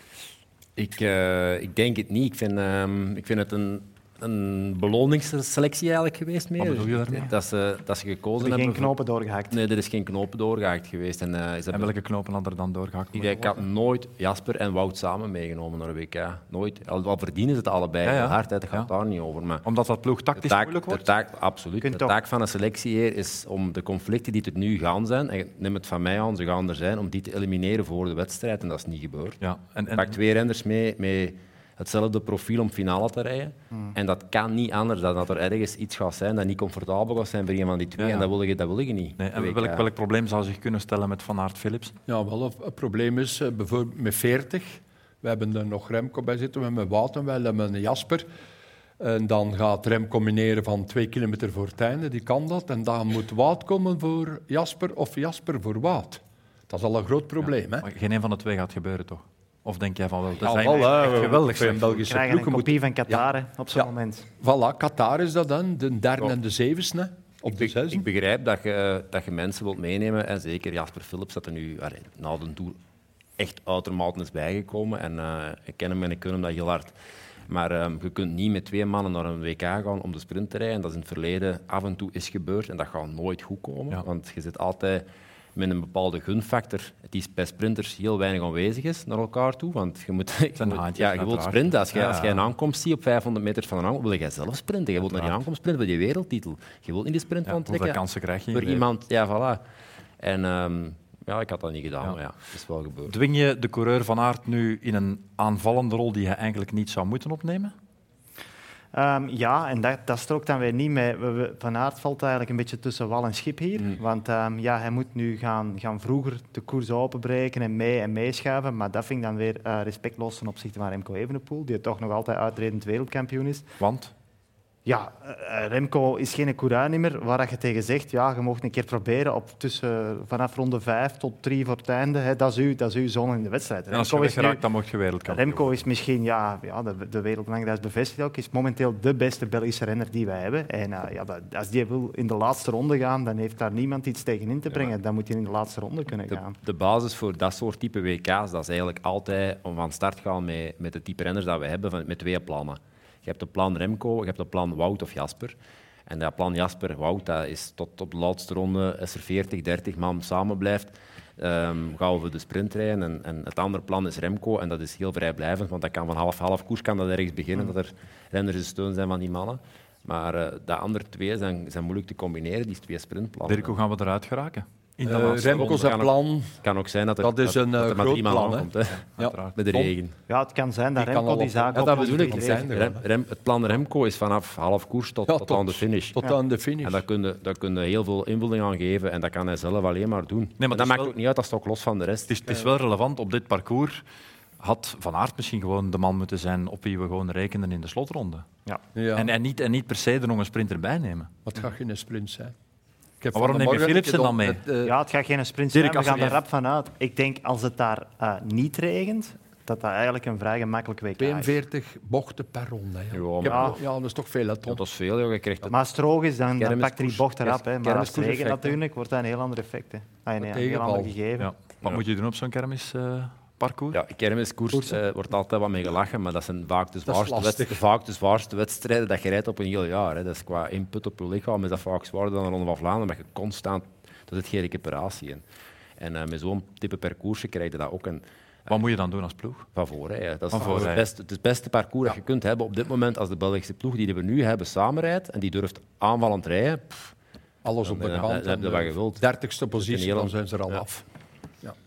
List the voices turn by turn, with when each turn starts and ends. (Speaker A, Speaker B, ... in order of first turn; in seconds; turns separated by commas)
Speaker A: 0.8-8.9, Speaker B: 6.6-7.3, Speaker C: 8.4-9.5, Speaker A: 9.5-11.9, Speaker B: 11.7-13.5, Speaker A: 13.1-19.6, Speaker B: 18.0-18.9, Speaker B: 19.6-21.1, Speaker A: 20.4-29.4, Speaker C: 21.8-22.1, Speaker B: 29.4-30.1, Speaker A: 29.9-39.8, Speaker B: 38.0-38.3, Speaker B: 39.2-42.0, Speaker D: 42.1-48.2, Speaker D: 49.0-57.9, Speaker B: 57.4-62.0, Speaker D: 60.4-68.0, Speaker C: 62.0-64.3, Speaker A: 67.5-72.8, Speaker A: 73.4-77.0, Speaker A: 77.5-98.0, Speaker B: 90.6-92.5, Speaker B: 95.1-95.3, Speaker B: 97.5-98.8, Speaker A: 98.5-99.6, Speaker A: 100.2-103.1, Speaker B: 103.1-107.7, Speaker C: 108.9-123.6, Speaker B: 123.8-124.1, Speaker C: 124.8-134.6, Speaker B: 133.9-135.7, Speaker C: 135.3-146.6, Speaker A: 146.3-155.6, Speaker A: 156.1-173.8, Speaker B: 173.5-175.7, Speaker D: 175.1-176.6, Speaker A: 175.4-180.1, Speaker D: 177.2-179.9, Speaker B: 179.2-179.5, Speaker C: 180.3-182.7, Speaker D: 181.0-183.0, Speaker A: 181.7-186.2, Speaker D: 185.3-187.0, Speaker A: 186.8-192.4, Speaker B: 190.6-191.1, Speaker B: 192.3-194.0, Speaker B: 194.6-198.4, Speaker D: 198.9-199.3, Speaker B: 199.1-201.3, Speaker D: 201.4-202.5, Speaker D: 203.2-204.9, Speaker B: 203.3-204.6, Speaker C: 204.8-211.5, Speaker B: 205.7-206.4, Speaker D: 211.2-214.8, Speaker A: 213.1-213.8, Speaker C: 213.5-213.8, Speaker A: 214.7-215.7, Speaker C: 215.7-221.5, Speaker A: 216.6-218.8, Speaker D: 220.4-221.2, Speaker B: 221.4-224.0, Speaker A: 223.9-235.4, Speaker D: 227.1-227.8, Speaker A: 236.0-238.7, Speaker B: 238.7-239.7, Speaker A: 239.7-247.1, Speaker B: 240.5-241.0, Speaker D: 247.6-251.0, Speaker A: 247.8-249.2, Speaker A: 249.8-250.8